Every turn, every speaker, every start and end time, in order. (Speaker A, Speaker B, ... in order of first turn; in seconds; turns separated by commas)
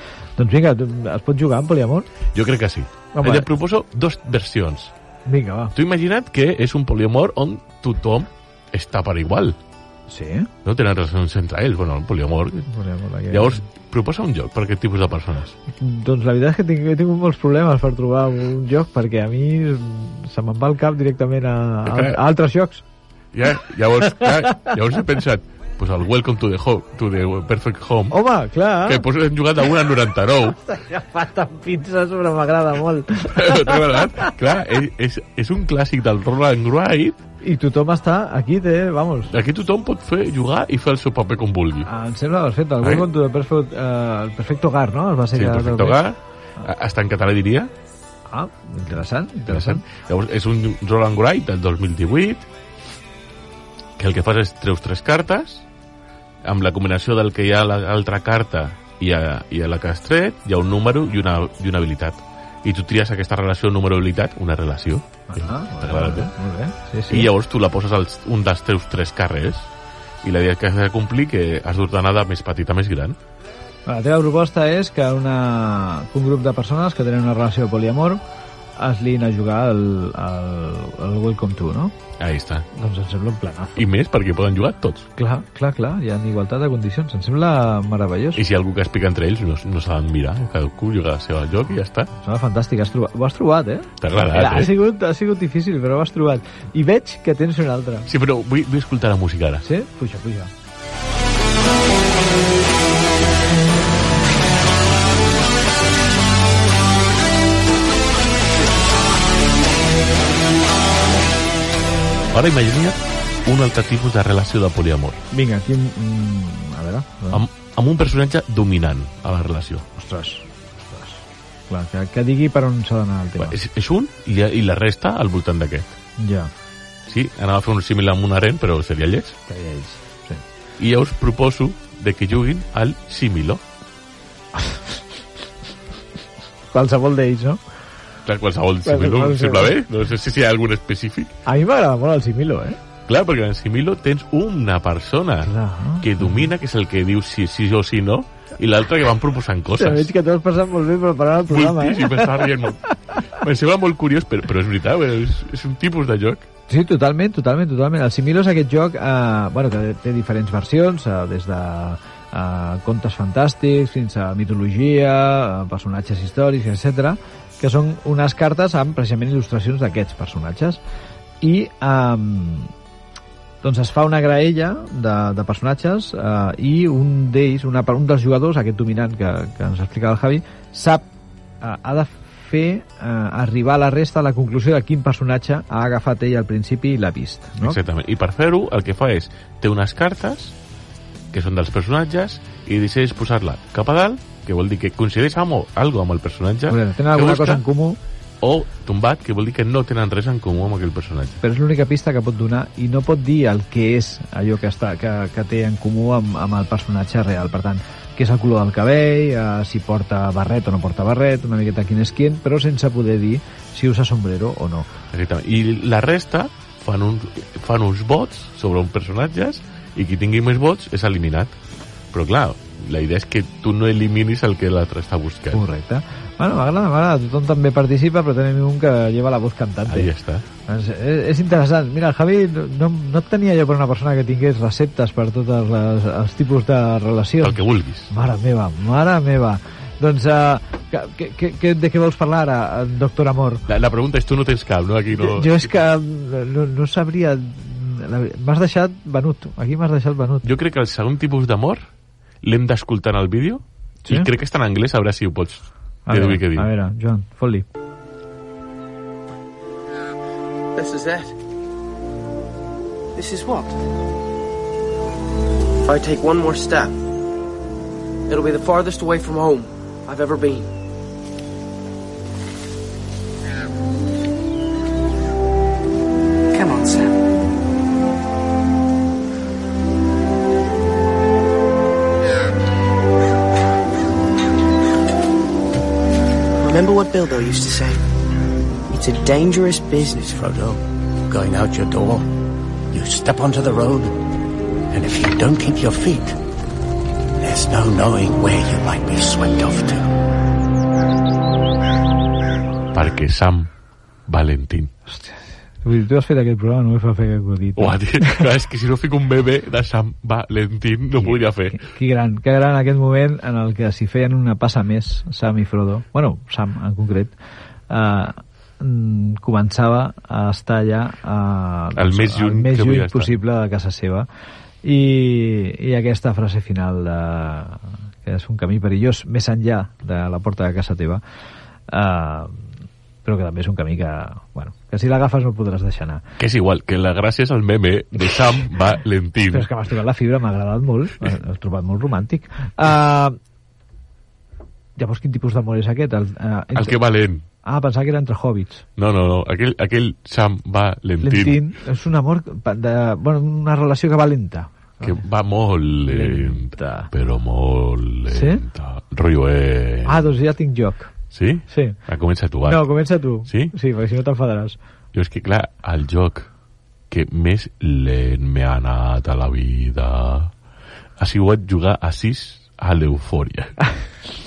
Speaker A: 0.4-2.1, Speaker B: 2.3-4.9, Speaker A: 3.1-3.5, Speaker A: 5.3-5.7, Speaker B: 5.7-9.6, Speaker A: 10.1-10.5, Speaker B: 10.6-12.7, Speaker A: 12.7-13.6, Speaker B: 13.3-15.6, Speaker A: 15.8-22.8, Speaker B: 21.9-22.2, Speaker B: 23.3-28.2, Speaker A: 24.2-24.7, Speaker A: 28.1-29.0, Speaker B: 28.9-30.6, Speaker A: 30.6-34.3, Speaker B: 33.3-37.2, Speaker A: 37.4-39.3, Speaker B: 39.3-41.9, Speaker A: 41.8-46.0, Speaker B: 42.8-43.1, Speaker B: 45.3-47.7, Speaker A: 48.3-49.8, Speaker B: 49.5-52.5, Speaker B: 54.0-55.7, Speaker B: 56.5-66.3, Speaker A: 65.3-67.3, Speaker B: 67.1-69.7, Speaker B: 70.2-73.2, Speaker A: 73.9-78.2, Speaker A: 78.8-81.9, Speaker B: 82.2-82.7, Speaker A: 82.7-83.8, Speaker B: 83.8-85.1, Speaker A: 85.2-88.4, Speaker B: 88.4-92.1, Speaker A: 92.1-98.1, Speaker B: 94.0-94.7, Speaker B: 98.1-99.6, Speaker A: 99.6-100.5, Speaker B: 112.3-115.2, Speaker A: 115.3-117.4, Speaker B: 117.3-119.8, Speaker A: 120.0-123.5, Speaker B: 123.4-126.0, Speaker A: 126.2-126.5, Speaker B: 127.1-129.4, Speaker A: 129.5-130.4, Speaker B: 130.8-133.6, Speaker A: 136.7-137.6, Speaker B: 138.3-141.4, Speaker A: 138.9-139.7, Speaker A: 141.4-142.8, Speaker B: 143.1-150.1, Speaker A: 145.4-146.5, Speaker A: 149.8-152.4, Speaker B: 151.5-156.5, Speaker A: 156.7-170.8, Speaker A: 171.4-172.7, Speaker A: 173.6-181.1, Speaker A: 181.6-187.8, Speaker B: 187.6-190.6, Speaker B: 191.3-197.6, Speaker A: 196.7-198.0, Speaker B: 198.4-201.4, Speaker A: 201.4-214.9, Speaker B: 215.1-221.6, Speaker B: 222.1-225.6, Speaker A: 225.5-230.1, Speaker B: 229.9-230.4, Speaker A: 230.7-243.6, Speaker B: 237.4-238.1, Speaker B: 243.7-245.7, Speaker A: 245.2-250.5, Speaker B: 250.4-251.8, Speaker B: 252.4-256.7, Speaker A: 254.1-254.3, Speaker A: 256.1-257.7, Speaker C: 260.8-261.4, Speaker C: 263.1-263.8, Speaker C: 265.8-267.0, Speaker C: 268.3-270.7, Speaker C: 276.5-277.2, Speaker C: 286.6-288.0, Speaker C: 288.9-290.2, Speaker D: 290.2-292.3, Speaker D: 292.9-294.2, Speaker D: 294.9-296.4, Speaker D: 297.4-300.1, Speaker B: 302.9-303.7, Speaker B: 304.3-304.9, Speaker A: 305.1-308.4, Speaker B: 307.8-311.8, Speaker A: 311.3-317.3, Speaker A: 317.9-324.3, Speaker B: 322.0-323.3, Speaker A: 324.8-331.2, Speaker A: 331.9-332.7, Speaker A: 333.2-336.2, Speaker B: 336.4-339.7, Speaker A: 339.5-343.4, Speaker A: 345.0-347.0, Speaker B: 346.7-347.4, Speaker A: 347.6-348.8, Speaker B: 349.0-351.6, Speaker A: 351.2-355.2, Speaker B: 355.0-360.3, Speaker A: 356.1-357.1, Speaker A: 358.3-358.6, Speaker A: 360.1-361.1, Speaker B: 361.3-362.9, Speaker A: 361.7-362.0, Speaker A: 362.6-364.8, Speaker B: 363.5-363.7, Speaker B: 365.1-366.5, Speaker B: 367.1-370.5, Speaker B: 371.2-373.8